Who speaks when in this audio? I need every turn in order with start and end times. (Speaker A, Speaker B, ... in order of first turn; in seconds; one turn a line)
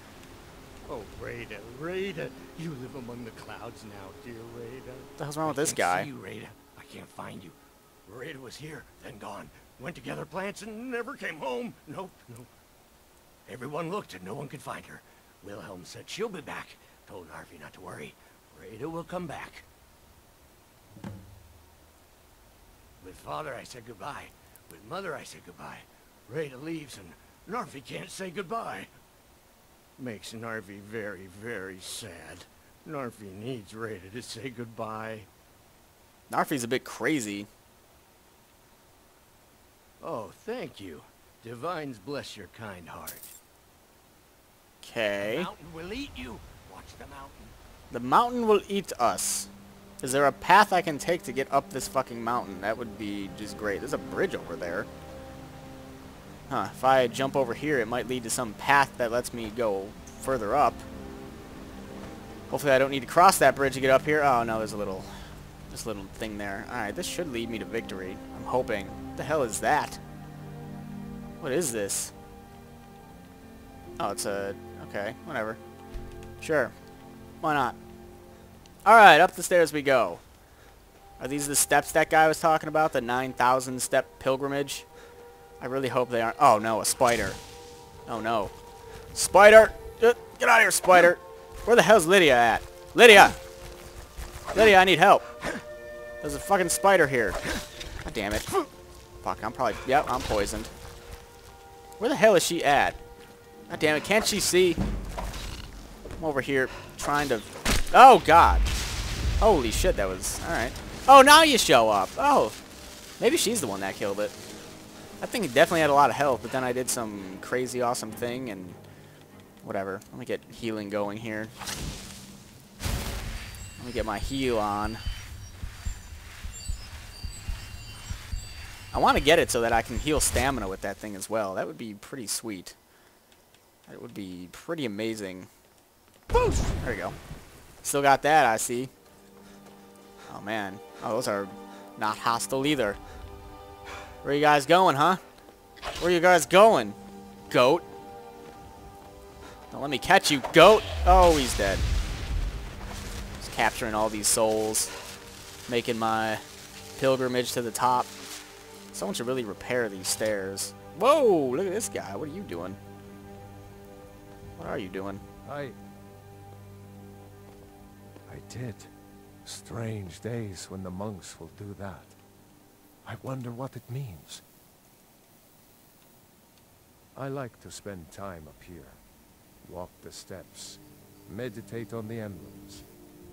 Speaker A: 0.9-12.5
Speaker B: 5.2-6.1
Speaker A: 13.5-19.6
Speaker A: 23.0-28.9
Speaker A: 30.0-35.3
Speaker B: 36.3-37.5
Speaker A: 40.0-43.3
Speaker B: 44.8-45.5
Speaker A: 45.2-47.5
Speaker B: 47.9-49.5
Speaker B: 50.0-54.9
Speaker B: 56.5-60.9
Speaker B: 62.5-65.1
Speaker B: 65.7-70.0
Speaker B: 71.4-72.1
Speaker B: 74.0-75.6
Speaker B: 76.4-76.7
Speaker B: 77.4-77.8
Speaker B: 78.8-80.2
Speaker B: 81.2-84.8
Speaker B: 85.6-87.4
Speaker B: 88.1-88.5
Speaker B: 89.1-93.4
Speaker B: 94.5-95.3
Speaker B: 96.2-97.4
Speaker B: 98.0-98.5
Speaker B: 99.2-100.7
Speaker B: 102.0-103.0
Speaker B: 103.7-104.8
Speaker B: 106.2-108.7
Speaker B: 109.4-112.6
Speaker B: 113.2-114.3
Speaker B: 115.2-118.8
Speaker B: 119.6-121.5
Speaker B: 123.8-125.0
Speaker B: 128.9-132.8
Speaker B: 133.9-135.5
Speaker B: 136.4-137.2
Speaker B: 137.8-138.9
Speaker B: 140.3-143.0
Speaker B: 144.2-145.2
Speaker B: 146.0-147.0
Speaker B: 147.5-147.9
Speaker B: 149.7-151.8
Speaker B: 153.4-154.9
Speaker B: 155.7-156.4
Speaker B: 157.0-158.1
Speaker B: 158.9-162.8
Speaker B: 164.6-165.2
Speaker C: 165.4-165.8
Speaker C: 168.3-168.9
Speaker C: 169.4-172.2
Speaker C: 173.1-174.4
Speaker C: 177.2-179.0
Speaker C: 179.6-182.8